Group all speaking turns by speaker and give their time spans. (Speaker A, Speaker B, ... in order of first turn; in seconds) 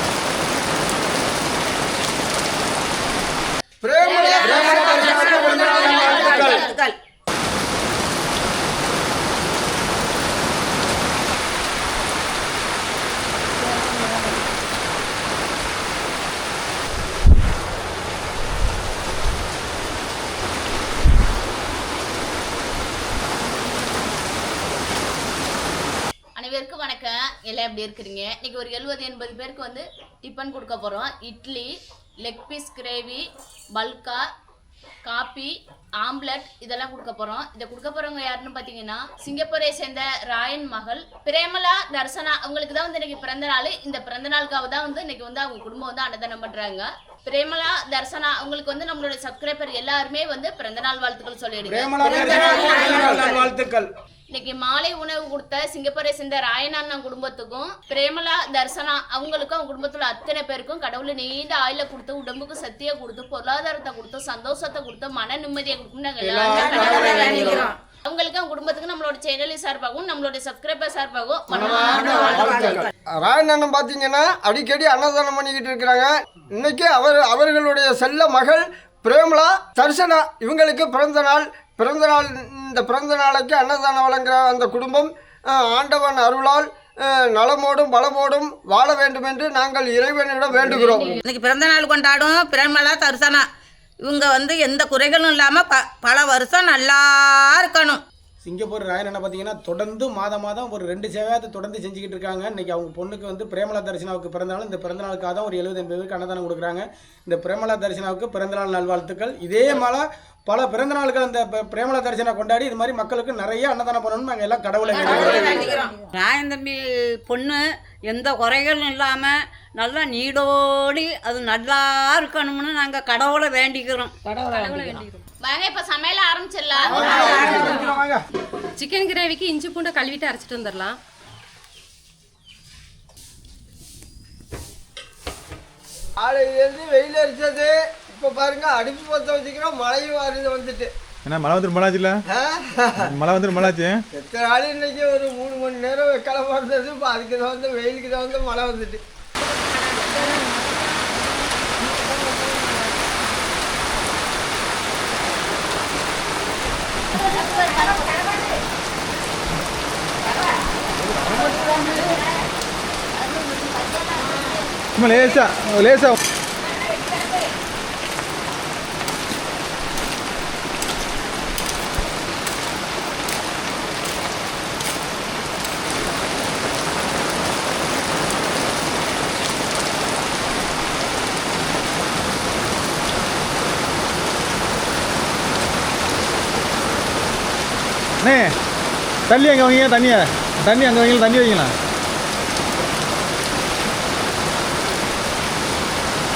Speaker A: 4.0-7.0, 52.4-52.9, 66.4-67.8, 71.7-72.9, 90.7-93.5, 94.0-98.0, 114.9-124.1
Speaker B: 4.2-6.8, 26.4-34.2, 35.0-53.0, 54.3-72.5, 125.4-127.5
Speaker C: 4.4-6.1, 66.3-67.6, 72.5-76.1, 76.6-82.2, 82.8-84.9, 85.9-86.7, 87.3-91.1, 136.2-140.9, 142.3-142.9, 144.1-149.0
Speaker D: 4.8-5.6, 51.6-53.9, 98.4-115.8, 126.9-128.2
Speaker E: 124.3-125.2, 127.0-127.9, 128.8-131.0
Speaker F: 141.2-142.2, 143.0-144.0, 165.0-166.2, 188.2-188.5, 189.3-191.7